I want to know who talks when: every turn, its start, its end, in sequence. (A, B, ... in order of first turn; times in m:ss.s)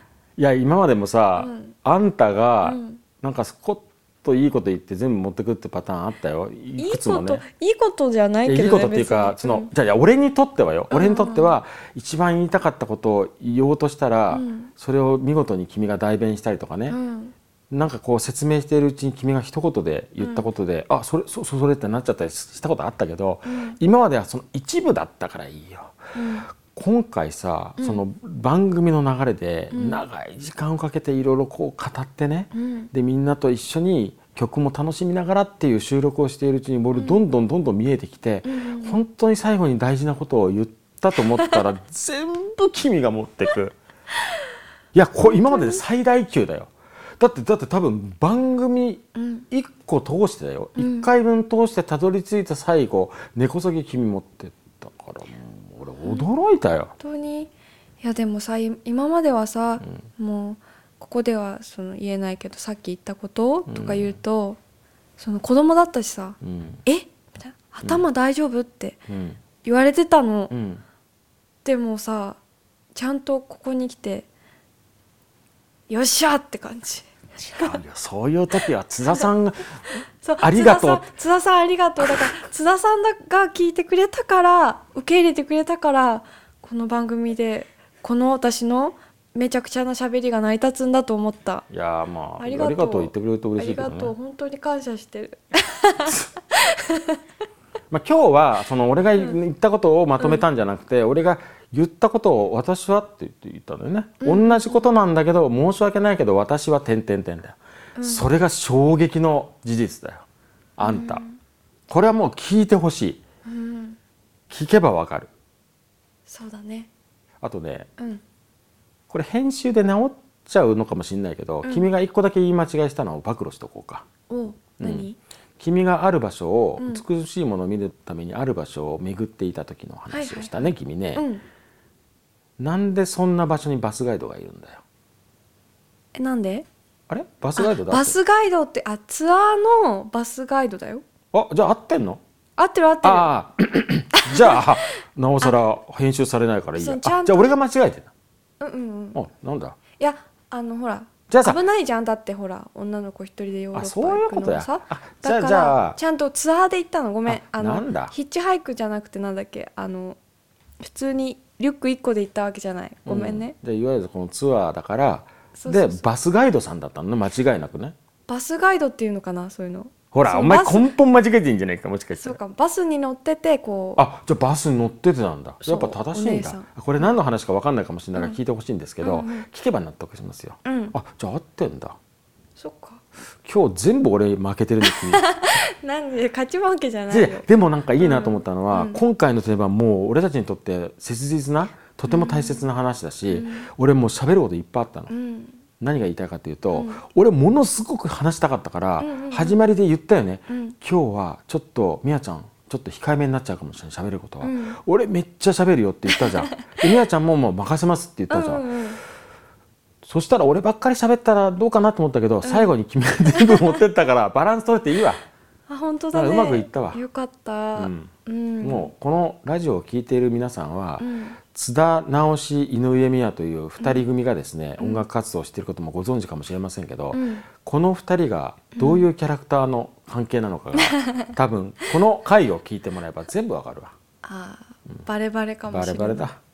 0:00.4-0:07.4 A
0:01.4-0:01.8 B
0:02.6-0:03.0 B
0:06.8-0:09.7 B
0:08.4-0:17.0 A
0:10.9-0:11.6 B
0:14.3-0:14.7 B
0:16.9-0:17.3 B
0:17.7-0:26.0 A
0:20.2-0:20.5 B
0:23.4-0:23.8 B
0:26.1-0:26.5 B
0:26.5-0:43.8 A
0:27.8-0:28.0 B
0:29.7-0:30.0 B
0:32.5-0:32.9 B
0:37.0-0:37.2 B
0:38.4-0:39.0 B
0:44.9-0:56.9 A
0:45.2-0:45.8 B
0:49.2-0:49.5 B
0:50.8-0:51.1 B
0:56.0-0:56.3 B
0:57.0-1:04.6 B
1:03.7-1:04.2 A
1:05.2-1:09.0 B
1:06.4-1:06.8 A
1:09.1-1:09.4 A
1:09.6-1:10.5 B
1:10.5-1:10.8 A
1:11.6-1:12.4 B
1:13.0-1:14.3 B
1:15.9-1:17.8 B
1:17.6-1:19.8 A
1:20.2-1:31.7 B
1:20.4-1:21.1 A
1:31.7-1:34.1 A
1:32.4-1:37.2 B
1:37.9-1:50.3 A
1:40.2-1:40.5 B
1:44.2-1:45.0 B
1:48.0-1:48.3 B
1:50.8-1:51.2 A
1:50.8-1:51.4 B
1:51.9-1:53.2 A
1:53.5-1:54.0 B
1:54.5-1:55.3 A
1:56.3-1:56.9 B
1:57.4-1:57.9 A
1:59.1-2:04.1 A
2:01.6-2:01.9 B
2:04.3-2:05.2 B
2:04.8-2:05.1 A
2:05.6-2:11.2 A
2:06.8-2:07.0 B
2:10.1-2:11.4 B
2:12.6-2:14.8 A
2:16.2-2:16.7 B
2:17.1-2:18.2 A
2:17.6-2:21.0 B
2:21.3-2:22.2 A
2:22.6-2:23.3 B
2:23.0-2:28.1 A
2:24.2-2:24.6 B
2:26.8-2:27.6 B
2:28.6-2:29.2 B
2:29.1-2:29.8 A
2:30.0-2:40.2 B
2:31.3-2:31.6 A
2:33.7-2:36.0 A
2:37.3-2:38.1 A
2:40.8-2:43.5 B
2:43.1-2:48.0 A
2:45.5-2:46.1 B
2:48.3-2:50.9 B
2:50.1-2:52.4 A
2:52.2-2:54.0 B
2:54.0-3:02.0 A
2:55.6-2:57.2 B
2:59.0-2:59.5 B
3:00.6-3:01.0 B
3:02.6-3:03.0 B
3:03.4-3:05.2 A
3:04.9-3:09.0 B
3:07.1-3:15.1 A
3:12.0-3:12.6 B
3:13.3-3:13.7 B
3:15.1-3:15.6 B
3:15.8-3:28.7 A
3:16.7-3:17.0 B
3:19.0-3:19.6 B
3:20.5-3:20.8 B
3:24.4-3:24.8 B
3:28.3-3:29.0 B
3:30.0-3:35.2 A
3:32.4-3:32.7 B
3:33.4-3:33.8 B
3:35.7-3:38.9 B
3:36.1-3:37.0 A
3:37.8-3:38.1 A
3:38.6-3:53.9 A
3:41.0-3:41.4 B
3:43.8-3:44.0 B
3:44.8-3:45.0 B
3:47.1-3:47.5 B
3:48.8-3:49.1 B
3:50.8-3:51.3 B
3:54.2-3:56.3 B
3:55.7-3:56.4 A